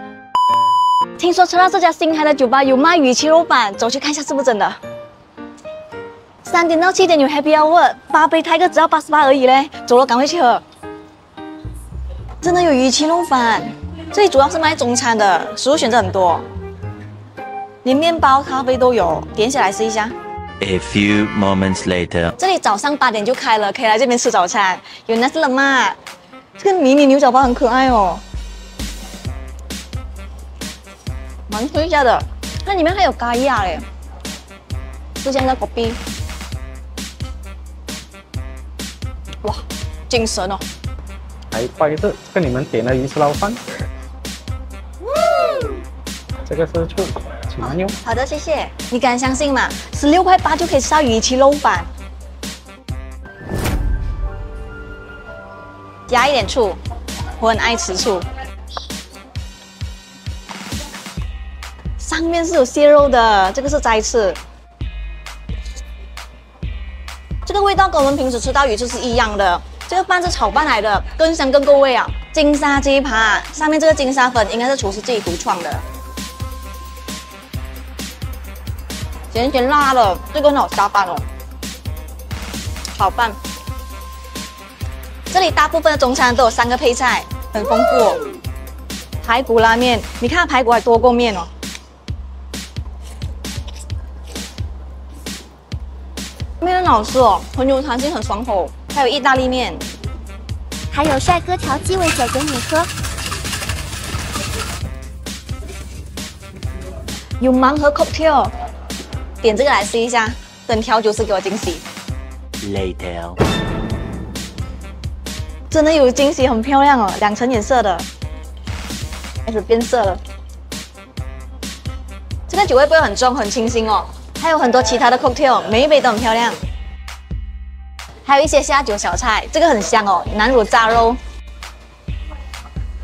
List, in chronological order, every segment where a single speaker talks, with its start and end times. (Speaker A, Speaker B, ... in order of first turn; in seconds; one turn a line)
Speaker A: 1.2-4.8
Speaker A: 6.4-10.6
Speaker A: 12.4-16.4
Speaker A: 17.8-20.1
Speaker B: 20.6-22.3
Speaker A: 22.4-26.0
Speaker A: 26.6-28.2
Speaker A: 31.5-33.9
Speaker A: 35.2-36.0
Speaker A: 39.4-40.6
Speaker C: 41.5-43.6
Speaker A: 45.2-45.7
Speaker C: 46.5-48.0
Speaker A: 48.0-51.9
Speaker A: 56.1-56.8
Speaker A: 57.4-58.3
Speaker A: 62.0-64.4
Speaker A: 67.5-75.8
Speaker A: 79.3-81.2
Speaker A: 83.0-83.4
Speaker A: 85.3-88.3
Speaker A: 89.2-91.5
Speaker A: 96.6-99.8
Speaker D: 100.9-102.9
Speaker A: 107.4-108.5
Speaker A: 109.4-111.8
Speaker B: 112.6-113.4
Speaker A: 115.7-118.1
Speaker A: 119.5-120.2
Speaker A: 122.5-126.6
Speaker A: 128.3-131.2